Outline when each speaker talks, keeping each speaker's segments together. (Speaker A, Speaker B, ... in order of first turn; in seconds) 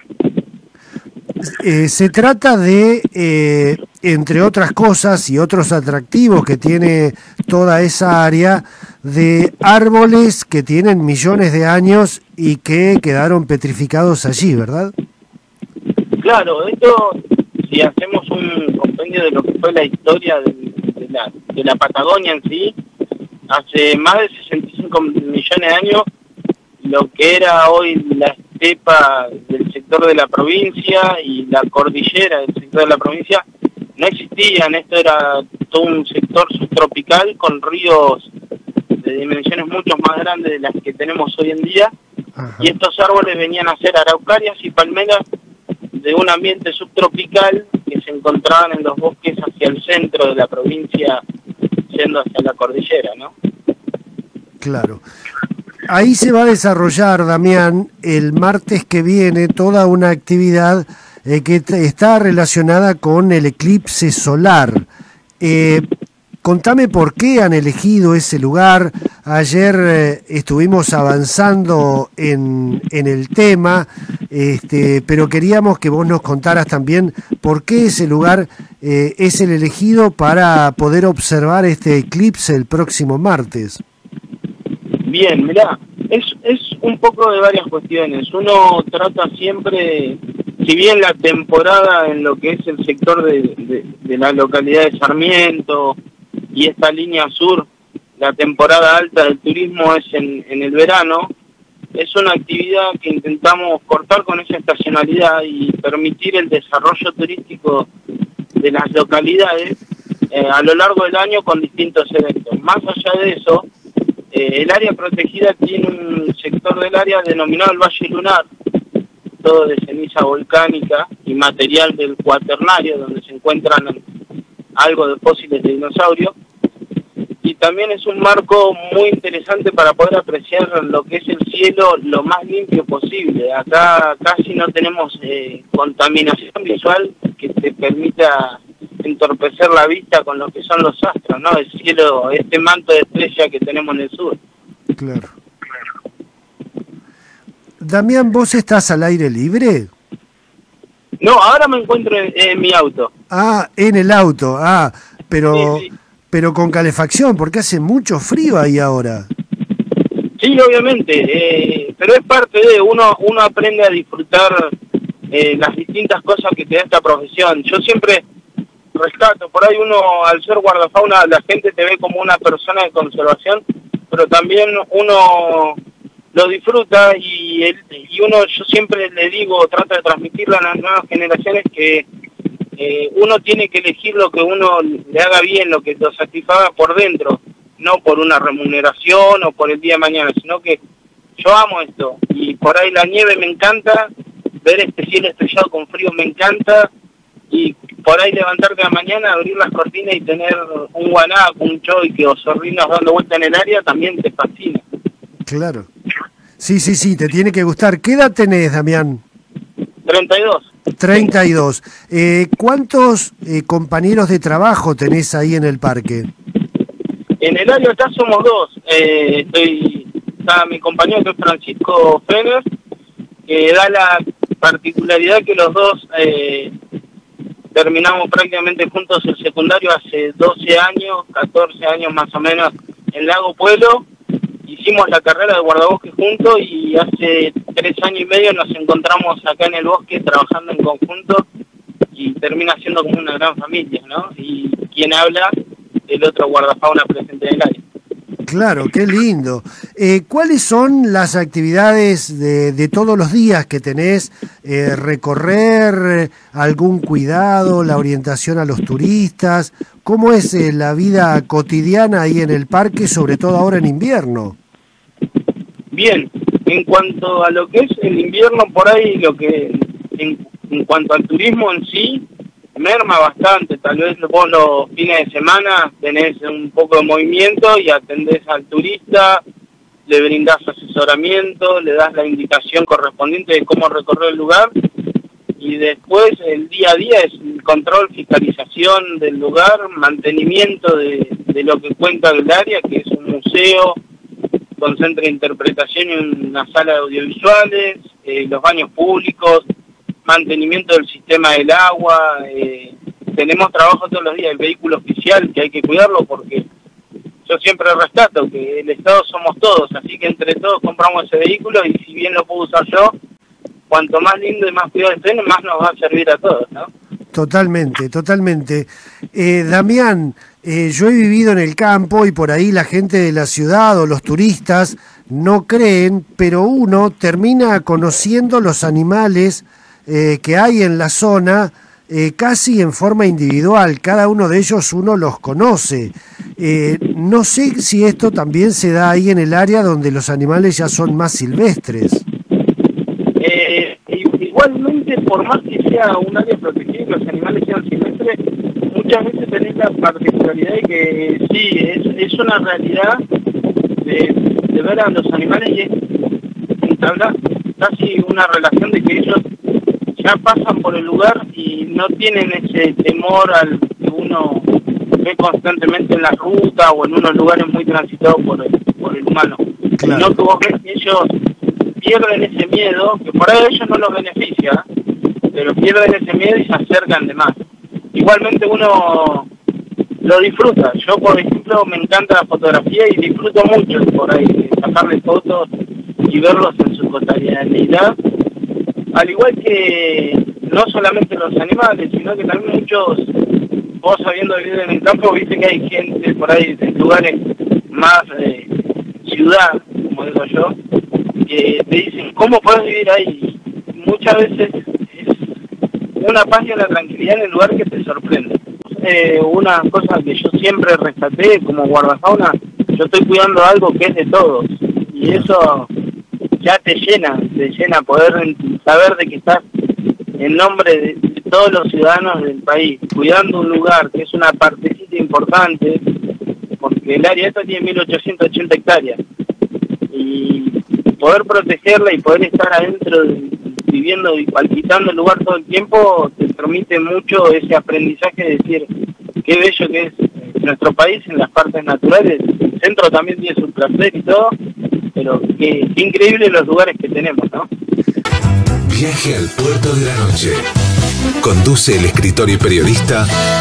Speaker A: 1.4-14.9, 42.4-42.7, 54.6-55.0, 55.9-64.8, 65.4-65.8, 66.4-83.8, 145.0-145.3, 147.8-149.9, 153.3-159.3, 205.5-205.9, 206.6-209.2, 211.0-216.3, 248.5-264.6, 317.3-342.2, 370.0-370.3
Speaker B: 16.2-22.8, 23.5-26.1, 26.8-33.4, 34.0-38.3, 39.0-41.9, 42.6-45.2, 45.9-51.2, 51.9-53.3, 85.0-96.0, 96.5-97.7, 98.2-101.3, 101.9-107.9, 108.6-109.8, 110.3-113.7, 114.3-118.5, 119.4-124.0, 124.8-126.3, 127.4-144.4, 151.2-153.1, 155.5-155.8, 160.4-164.7, 165.3-168.2, 168.9-175.8, 176.3-182.1, 182.8-190.8, 191.4-194.1, 194.6-196.9, 197.5-204.8, 210.0-211.3, 217.4-222.6, 223.5-226.7, 227.7-234.1, 234.6-241.5, 242.1-245.5, 246.1-247.8, 265.9-279.4, 280.1-284.7, 285.6-294.0, 294.8-299.6, 300.2-306.7, 307.4-313.1, 313.9-316.9, 343.4-353.2, 354.0-356.0, 356.8-359.4, 360.1-364.7, 365.2-371.3, 372.0-374.9, 375.5-377.6, 378.1-379.5, 380.2-385.7, 386.2-388.2, 389.1-393.3, 394.0-400.8, 401.4-405.4, 406.2-415.9, 416.6-419.6, 420.4-426.0, 426.8-429.2, 430.1-438.9, 439.4-444.5, 445.1-447.7
Speaker C: 448.9-450.6, 451.4-453.3